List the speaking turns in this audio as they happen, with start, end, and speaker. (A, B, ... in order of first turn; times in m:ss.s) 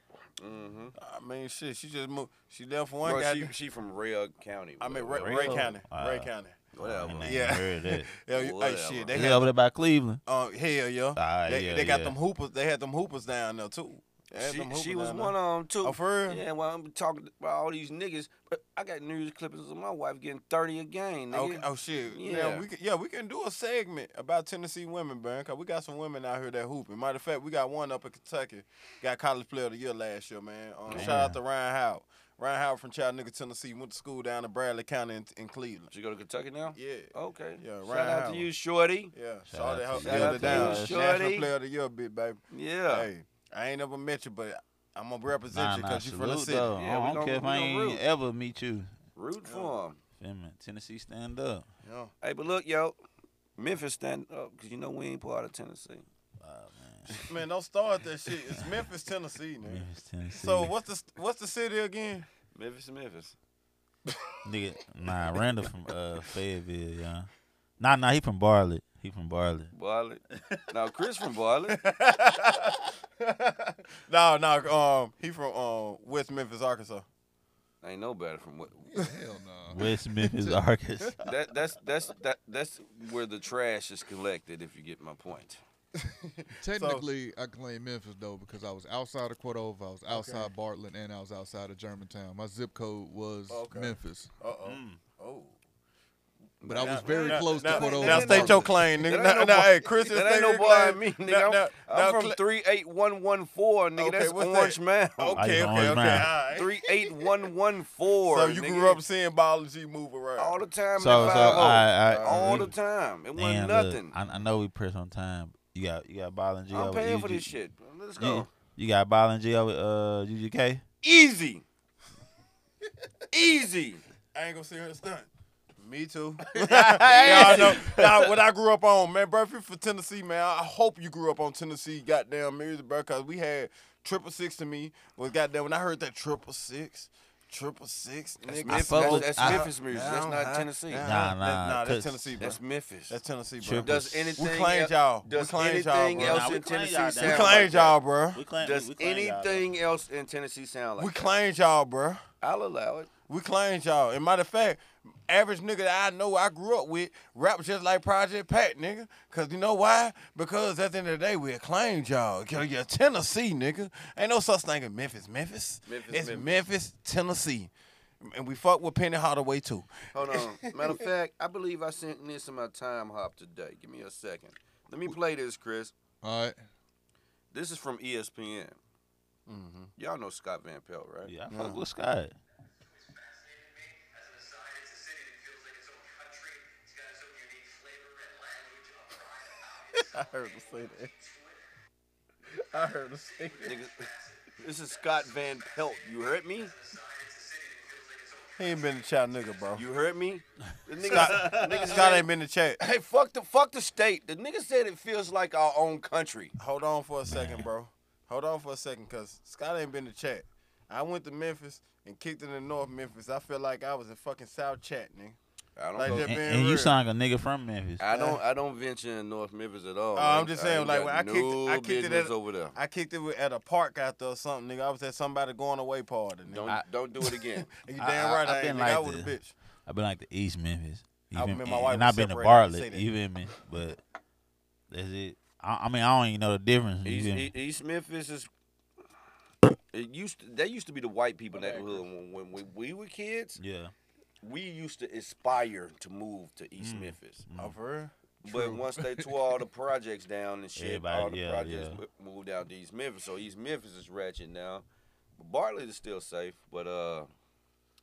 0:00.4-0:00.9 A
0:01.0-0:03.5 B
0:03.0-0:05.7 A
0:04.8-0:06.6 B
0:05.2-0:08.1 C
0:06.7-0:07.4 A
0:07.2-0:09.5 B
0:08.3-0:09.2 A
0:09.1-0:10.2 C
0:10.2-0:16.4 B
0:11.2-0:12.1 C
0:14.4-0:22.6 A
0:21.3-0:35.9 B
0:30.9-0:31.2 A
0:30.9-0:31.4 C
0:35.9-0:39.1 A
0:36.8-0:38.5 B
0:39.1-0:46.7 B
0:39.5-0:41.0 C
0:40.0-0:41.5 A
0:42.5-0:43.1 A
0:45.5-0:48.9 C
0:46.8-0:48.0 A
0:49.2-0:50.0 A
0:49.4-0:49.7 B
0:50.2-0:51.6 C
0:51.8-0:52.1 B
0:52.2-0:53.0 A
0:53.6-0:56.0 A
0:56.4-0:57.3 C
0:57.2-1:02.3 B
0:59.6-1:00.7 C
1:02.5-1:03.4 A
1:04.1-1:04.4 B
1:04.4-1:09.7 C
1:09.7-1:11.8 A
1:10.3-1:10.6 C
1:11.7-1:17.0 B
1:17.8-1:19.0 A
1:18.9-1:21.1 D
1:19.7-1:21.2 C
1:21.2-1:25.6 A
1:25.9-1:27.1 B
1:26.6-1:34.3 D
1:30.1-1:30.5 B
1:33.5-1:35.6 B
1:34.6-1:35.0 C
1:36.6-1:49.0 A
1:36.6-1:38.8 D
1:36.6-1:42.4 B
1:44.0-1:47.3 B
1:45.3-1:46.4 C
1:48.2-1:50.6 B
1:50.4-1:54.1 A
1:51.0-1:52.7 C
1:51.1-1:52.7 B
1:53.4-1:57.5 C
1:56.7-1:58.5 A
1:58.2-2:00.8 C
2:01.0-2:01.6 A
2:03.3-2:04.0 A
2:04.3-2:22.6 B
2:06.6-2:08.3 C
2:06.6-2:08.0 A
2:18.6-2:21.1 A
2:18.6-2:19.7 C
2:21.0-2:22.5 C
2:22.4-2:23.2 A
2:23.1-2:26.6 B
2:23.6-2:24.4 C
2:23.8-2:28.0 A
2:26.1-2:29.7 C
2:27.2-2:28.4 B
2:28.6-2:31.3 A
2:31.0-2:32.2 B
2:32.4-2:33.1 A
2:33.3-2:51.1 B
2:45.8-2:46.5 A
2:50.1-2:55.9 A
2:56.2-2:56.6 D
2:57.5-2:58.8 A
2:59.5-2:59.9 B
3:00.0-3:01.3 A
3:01.2-3:02.3 C
3:01.5-3:01.8 B
3:03.0-3:11.6 E
3:09.9-3:11.1 B
3:12.5-3:13.8 B
3:13.3-3:19.8 E
3:13.6-3:16.7 A
3:18.6-3:19.8 B
3:19.7-3:22.3 A
3:21.0-3:22.8 B
3:21.0-3:21.7 E
3:22.8-3:26.5 A
3:26.6-3:35.4 B
3:27.3-3:27.6 C
3:35.8-3:36.3 A
3:35.9-3:37.0 B
3:36.0-3:38.1 C
3:38.0-3:42.8 A
3:38.1-3:38.4 B
3:40.1-3:49.5 B
3:46.5-3:47.7 A
3:48.0-3:54.0 C
3:51.3-3:53.1 B
3:54.9-3:57.5 C
3:57.0-3:58.5 A
3:59.9-4:03.6 A
4:01.5-4:02.0 B
4:03.6-4:03.9 C
4:04.4-4:07.4 A
4:06.8-4:07.8 C
4:07.6-4:08.1 B
4:08.4-4:14.8 A
4:08.4-4:09.6 D
4:10.8-4:12.0 C
4:15.4-4:17.3 A